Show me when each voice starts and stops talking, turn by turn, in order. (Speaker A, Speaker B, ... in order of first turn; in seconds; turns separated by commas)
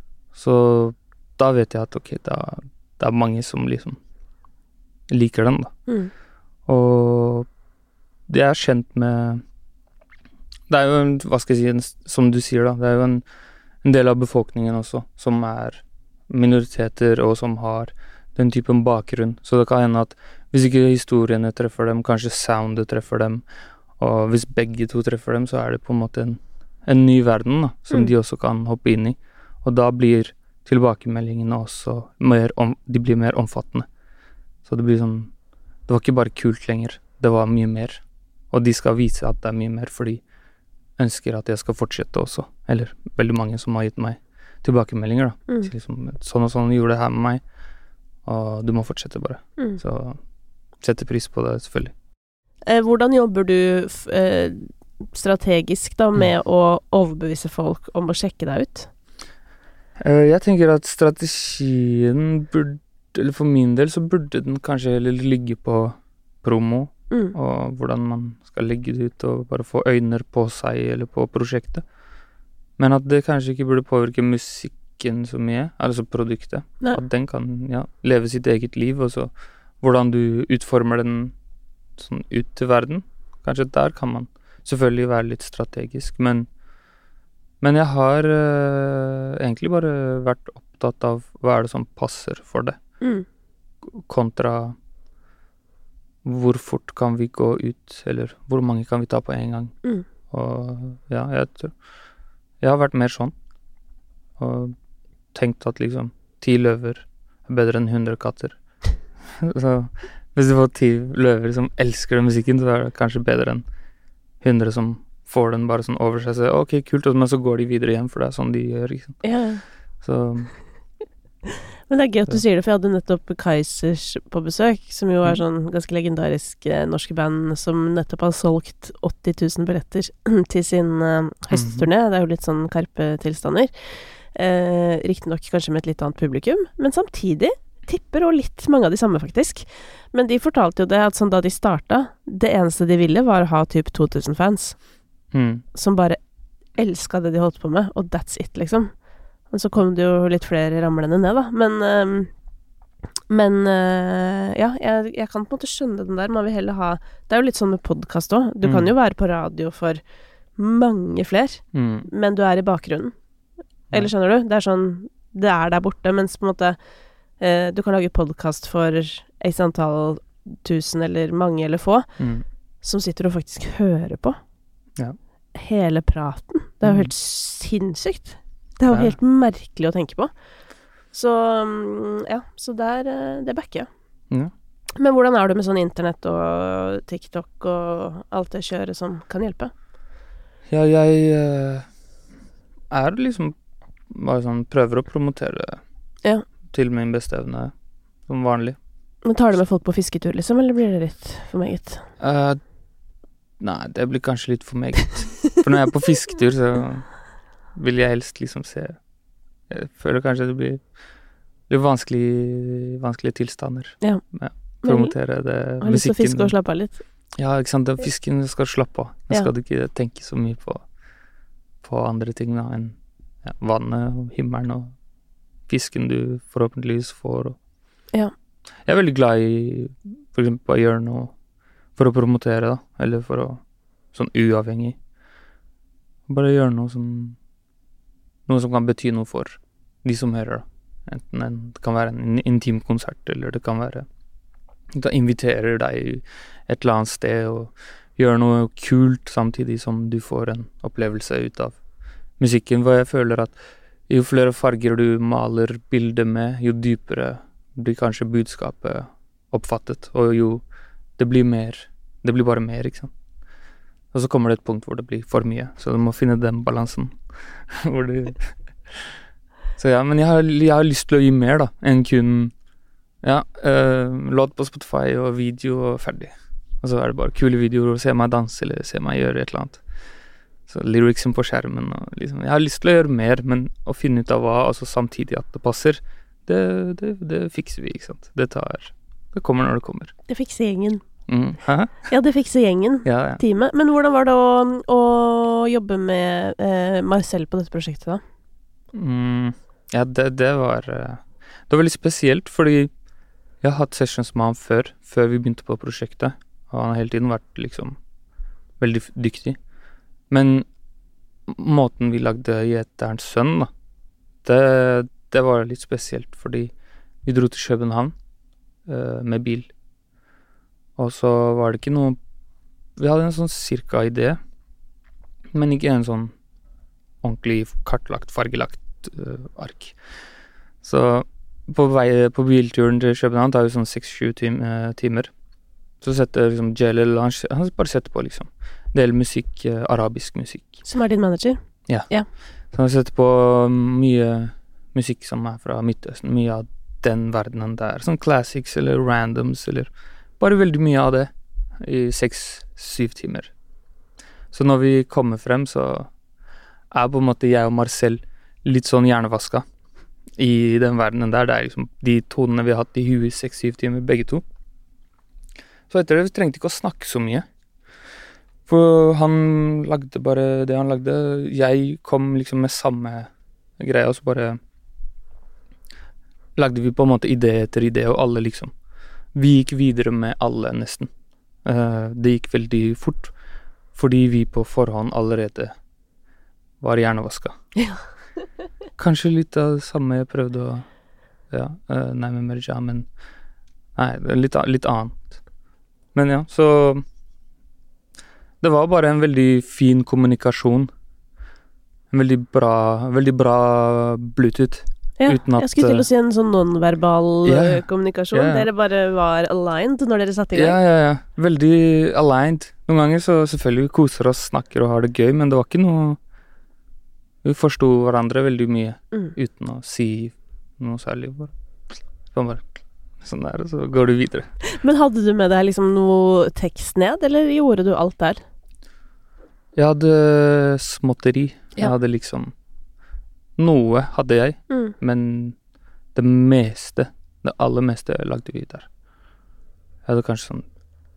Speaker A: 0.3-4.0, Speaker A: 5.1-5.7, Speaker A: 6.7-7.5, Speaker A: 8.3-9.4, Speaker A: 10.7-13.2, Speaker A: 13.8-23.4, Speaker A: 24.0-33.9, Speaker A: 34.7-35.3, Speaker A: 35.9-40.2, Speaker A: 41.0-47.4, Speaker A: 48.2-50.2, Speaker A: 50.8-51.9, Speaker B: 52.7-58.9, Speaker A: 60.0-71.8, Speaker A: 72.8-81.3, Speaker A: 82.0-86.5, Speaker A: 87.6-92.8, Speaker A: 93.9-94.8, Speaker A: 96.2-99.8, Speaker A: 100.3-101.8, Speaker A: 102.6-103.3, Speaker A: 104.4-104.8, Speaker A: 105.3-108.6, Speaker A: 109.3-113.6, Speaker A: 114.4-119.2, Speaker B: 119.2-119.6, Speaker A: 120.0-120.5, Speaker B: 121.9-144.8, Speaker A: 131.5-131.9, Speaker A: 145.3-145.7, Speaker B: 145.7-146.2, Speaker B: 146.8-148.9, Speaker B: 149.5-152.3, Speaker B: 153.3-160.0, Speaker A: 158.6-158.9, Speaker B: 160.6-163.1, Speaker A: 161.7-162.1, Speaker B: 163.9-166.8, Speaker B: 167.4-172.2, Speaker A: 172.2-172.4, Speaker B: 172.8-174.4, Speaker B: 175.6-180.3, Speaker A: 176.8-177.1, Speaker A: 178.9-179.2, Speaker B: 181.1-183.9, Speaker B: 185.0-189.7, Speaker A: 190.7-191.9, Speaker A: 192.9-193.6, Speaker A: 194.1-195.8, Speaker A: 196.7-197.7, Speaker A: 198.3-198.8, Speaker B: 199.2-202.1, Speaker A: 202.2-202.6, Speaker A: 203.6-207.2, Speaker A: 207.7-209.0, Speaker A: 209.7-210.8, Speaker A: 211.7-216.5, Speaker B: 214.8-215.1, Speaker B: 215.8-217.0, Speaker A: 217.4-220.9, Speaker A: 221.8-224.9, Speaker A: 225.7-227.6, Speaker A: 228.9-231.3, Speaker A: 232.0-233.6, Speaker A: 234.1-235.0, Speaker A: 236.3-237.4, Speaker A: 238.5-244.1, Speaker A: 244.9-251.8, Speaker A: 252.4-253.6, Speaker A: 254.1-260.6, Speaker A: 261.2-263.1, Speaker A: 264.1-269.1, Speaker A: 269.8-272.5, Speaker A: 273.2-279.8, Speaker A: 280.7-290.1, Speaker B: 290.3-291.0, Speaker A: 291.3-292.1, Speaker B: 292.1-298.2, Speaker A: 293.1-293.4, Speaker A: 298.9-302.9, Speaker A: 303.6-308.0, Speaker A: 308.8-309.6, Speaker A: 310.3-310.7, Speaker A: 311.5-313.7, Speaker A: 314.4-316.7, Speaker A: 317.2-318.1, Speaker A: 318.9-319.7, Speaker A: 321.0-322.2, Speaker A: 323.0-324.4, Speaker A: 325.5-326.3, Speaker A: 327.2-330.0, Speaker A: 330.8-335.3, Speaker A: 336.0-340.8, Speaker B: 340.9-342.3, Speaker A: 342.7-353.5, Speaker A: 354.5-356.1, Speaker A: 356.9-359.6, Speaker A: 360.4-364.4, Speaker A: 365.9-367.5, Speaker A: 368.7-374.6, Speaker A: 376.6-378.7, Speaker A: 379.3-381.1, Speaker A: 381.6-383.3, Speaker A: 383.9-385.7, Speaker A: 386.8-387.6, Speaker A: 389.0-390.9, Speaker A: 391.5-393.1, Speaker A: 394.0-395.4, Speaker A: 396.1-397.0, Speaker A: 398.6-400.9, Speaker A: 402.1-406.1, Speaker B: 405.2-410.8, Speaker A: 407.4-408.7, Speaker A: 410.5-416.2, Speaker A: 417.4-421.5, Speaker A: 422.3-424.5, Speaker B: 424.6-428.4, Speaker A: 429.8-432.5, Speaker A: 433.6-435.6, Speaker B: 434.7-434.9, Speaker A: 436.1-438.9, Speaker A: 440.1-440.7